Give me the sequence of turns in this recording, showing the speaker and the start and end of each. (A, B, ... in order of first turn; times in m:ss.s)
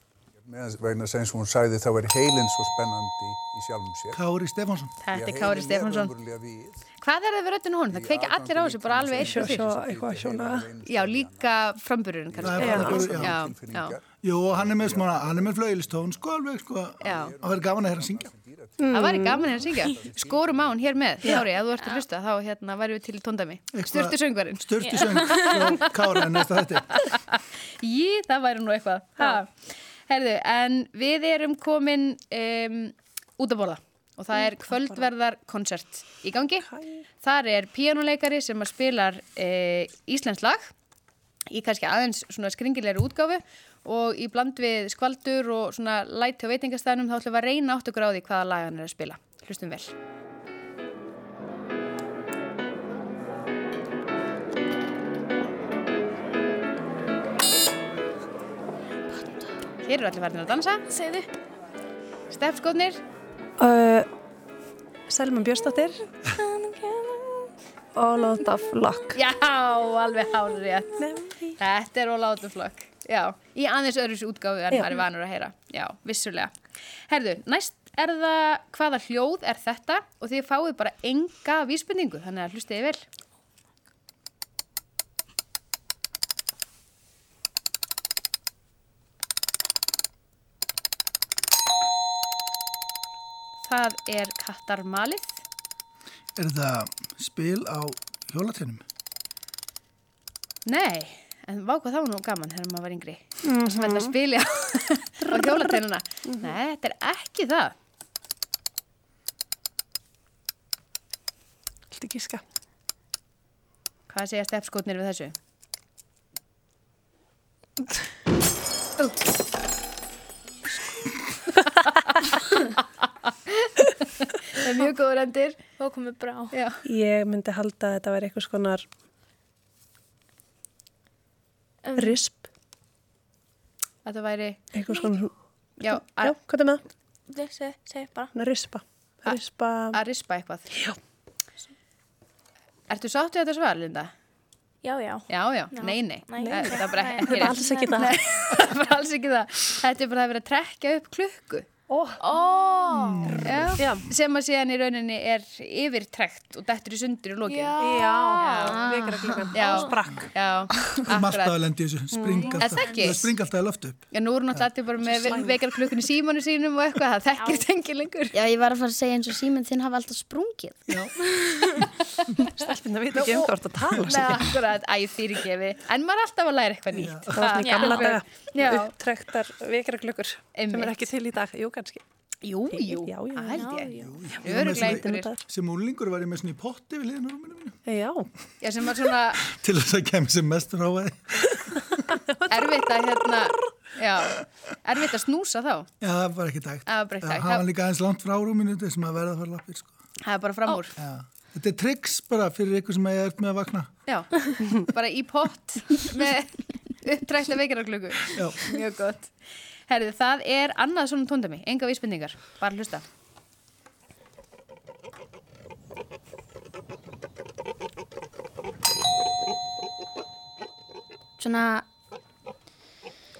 0:00.4-0:04.1 A
0:04.1-0:05.0 B
0:05.0-0:06.1 C
0:05.1-0:06.8 A
0:07.0-0:09.6 C
0:07.9-0:11.6 A
0:09.2-0:10.7 D
0:10.8-0:14.0 C
0:12.3-0:16.4 A
0:12.4-0:13.4 B
0:12.6-0:13.0 D
0:14.2-0:18.3 B
0:17.0-0:21.4 A
0:17.0-0:17.3 C
0:18.8-0:19.4 D
0:18.9-0:24.6 C
0:23.7-0:26.9 B
0:24.8-0:25.8 E
0:25.5-0:25.8 C
0:27.8-0:29.5 C
0:30.1-0:36.6 C
0:36.6-0:37.0 D
0:37.2-0:40.7 C
0:41.5-0:49.9 C
0:59.1-0:59.6 F
0:59.8-1:00.8 C
1:00.9-1:01.3 E
1:02.3-1:03.0 C
1:03.6-1:04.1 D
1:05.1-1:06.0 D
1:06.2-1:07.5 E
1:07.9-1:09.2 D
1:09.1-1:11.0 C
1:11.0-1:11.6 D
1:11.6-1:16.5 C
1:14.7-1:15.0 D
1:17.1-1:23.0 C
1:33.6-1:35.4 C
1:36.4-1:38.8 B
1:40.6-1:47.7 C
1:43.4-1:44.1 D
1:45.3-1:45.7 D
1:51.9-1:52.4 D
1:54.1-1:55.3 C
2:01.7-2:02.4 C
2:03.2-2:05.6 C
2:05.8-2:06.6 E
2:06.5-2:06.8 C
2:06.8-2:08.9 D
2:11.8-2:12.2 E
2:12.0-2:12.5 D
2:14.0-2:14.6 C
2:14.7-2:16.8 D
2:14.8-2:15.2 E
2:15.8-2:16.4 C
2:17.3-2:18.3 E
2:18.3-2:20.0 D
2:19.9-2:20.8 C
2:22.9-2:24.1 C
2:24.8-2:28.0 E
2:25.3-2:31.7 C
2:26.3-2:28.1 D
2:31.9-2:32.2 D
2:32.2-2:33.3 E
2:33.0-2:33.8 B
2:33.3-2:38.8 C
2:33.8-2:34.0 D
2:37.4-2:38.9 E
2:37.8-2:40.3 D
2:38.4-2:39.7 F
2:39.5-2:41.6 C
2:40.8-2:44.7 B
2:42.4-2:43.1 F
2:42.5-2:43.3 C
2:44.1-2:48.4 C
2:45.0-2:45.6 D
2:47.3-2:47.7 E
2:48.3-2:50.9 F
2:50.9-2:51.2 B
2:51.4-2:51.8 E
2:52.6-2:54.4 D
2:53.1-2:59.0 C
2:56.9-2:57.6 B
2:57.3-3:02.0 D
2:57.6-2:58.1 E
3:00.5-3:01.1 C
3:02.4-3:05.3 C
3:02.7-3:03.7 D
3:03.5-3:04.3 E
3:04.0-3:07.8 B
3:04.3-3:05.4 D
3:07.8-3:08.3 D
3:08.6-3:09.4 C
3:09.4-3:11.8 B
3:12.5-3:15.9 C
3:16.0-3:19.9 B
3:16.9-3:17.6 C
3:20.2-3:20.9 C
3:21.0-3:23.9 B
3:24.0-3:29.3 C
3:28.3-3:28.6 B
3:29.9-3:33.0 C
3:41.4-3:41.8 F